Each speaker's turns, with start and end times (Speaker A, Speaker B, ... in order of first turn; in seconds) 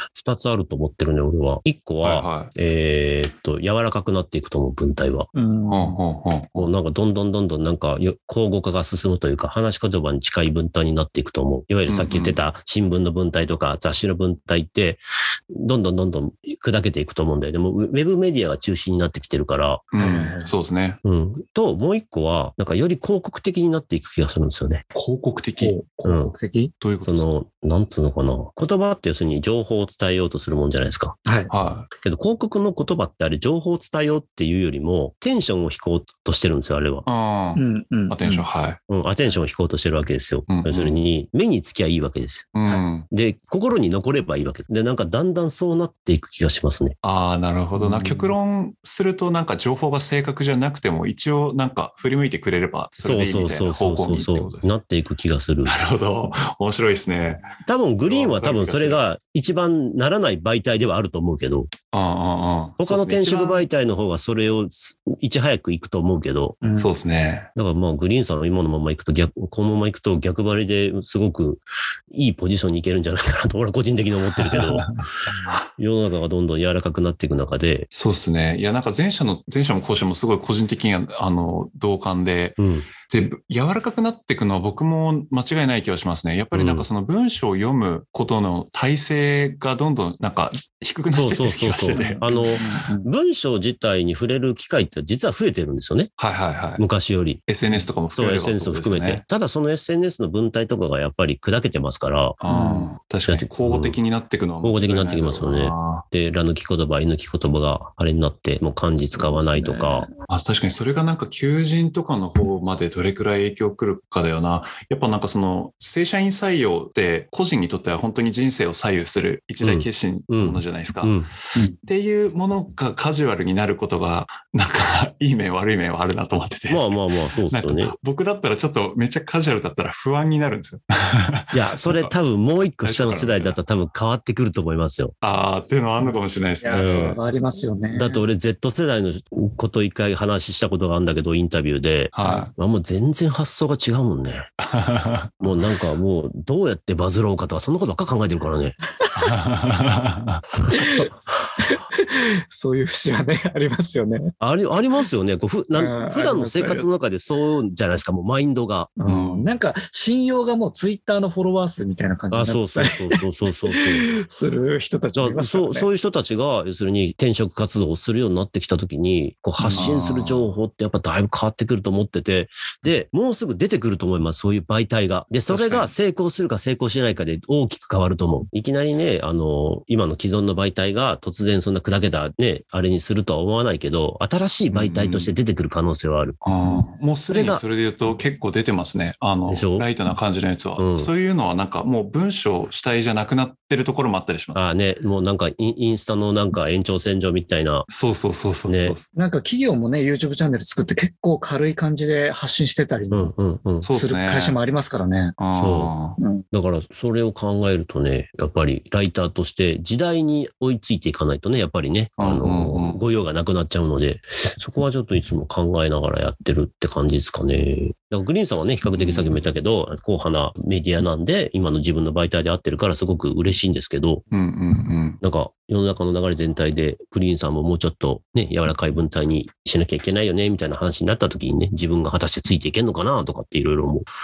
Speaker A: 0.1-5.3, 6.5-19.9, 21.0-24.8, 26.1-26.3, 27.0-31.1, 32.0-37.1, 38.9-42.5, 43.1-47.0, 53.0-55.8, 57.7-61.7, 62.8-66.6, 67.6-74.9, 75.8-77.9, 82.6-82.9, 86.5-86.9, 91.2-96.1, 96.8-97.5, 98.2-102.4, 103.3-104.0, 104.6-110.1, 119.6-121.3, 126.7-128.0, 131.5-135.1, 136.7-137.1, 137.9-144.5, 145.4-148.8, 154.4-158.9, 162.3-164.1, 165.2-186.4, 187.3-187.6, 189.5-189.9, 190.8-191.1, 194.6-197.9, 198.7-199.0, 203.1-203.9, 205.5-205.9, 206.5-224.2, 225.2-234.1
Speaker B: 2.0-2.5, 5.7-6.5, 11.9-12.4, 19.9-21.0, 24.9-25.8, 26.8-27.3, 31.5-31.9, 37.1-38.8, 40.5-41.0, 42.5-43.1, 47.0-54.7, 55.7-59.0, 61.9-63.7, 66.8-67.5, 74.4-75.6, 77.9-92.8, 96.2-96.8, 97.5-99.2, 102.4-106.0, 110.3-121.3, 121.8-132.1, 132.8-133.6, 135.2-137.2, 142.1-142.5, 144.6-145.6, 149.2-150.4, 159.1-159.5, 169.7-170.5, 175.5-175.9, 184.7-185.3, 186.4-194.7, 197.9-199.1, 203.8-204.6, 205.4-206.2, 212.2-213.0, 218.9-219.4, 224.3-225.2
Speaker C: 5.3-6.0, 20.0-20.5, 25.6-26.7, 31.3-31.5, 37.6-38.5, 47.8-48.4, 66.6-66.9, 91.9-93.1, 102.5-102.9, 109.0-110.2, 136.0-138.2, 150.7-154.3, 155.8-156.9, 159.0-163.2, 163.7-165.9, 169.6-169.9, 199.2-203.3, 203.9-205.4, 206.2-206.4